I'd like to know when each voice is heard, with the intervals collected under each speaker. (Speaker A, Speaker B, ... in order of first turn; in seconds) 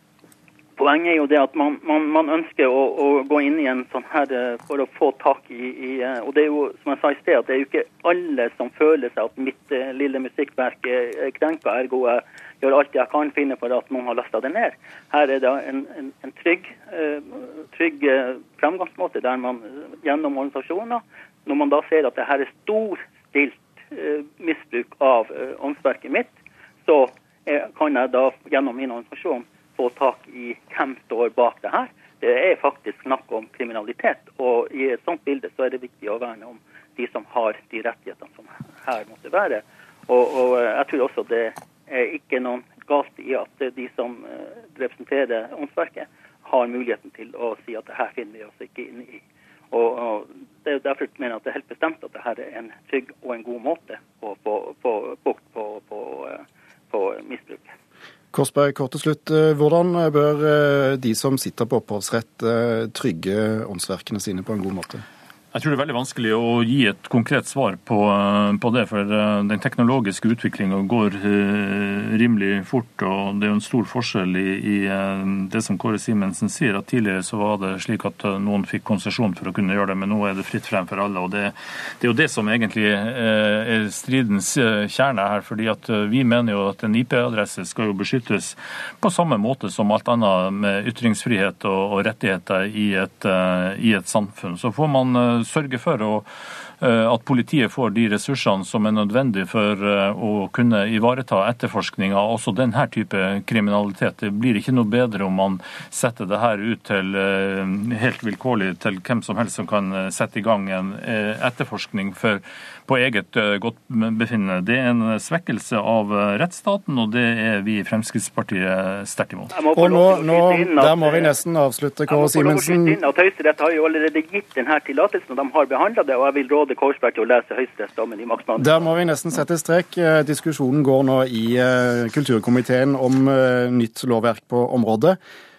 Speaker A: 0.8-57.7, 119.5-121.3, 122.1-128.9
Speaker B: 58.3-65.0, 119.7-123.0, 128.6-135.2
Speaker C: 65.5-96.2, 96.8-119.5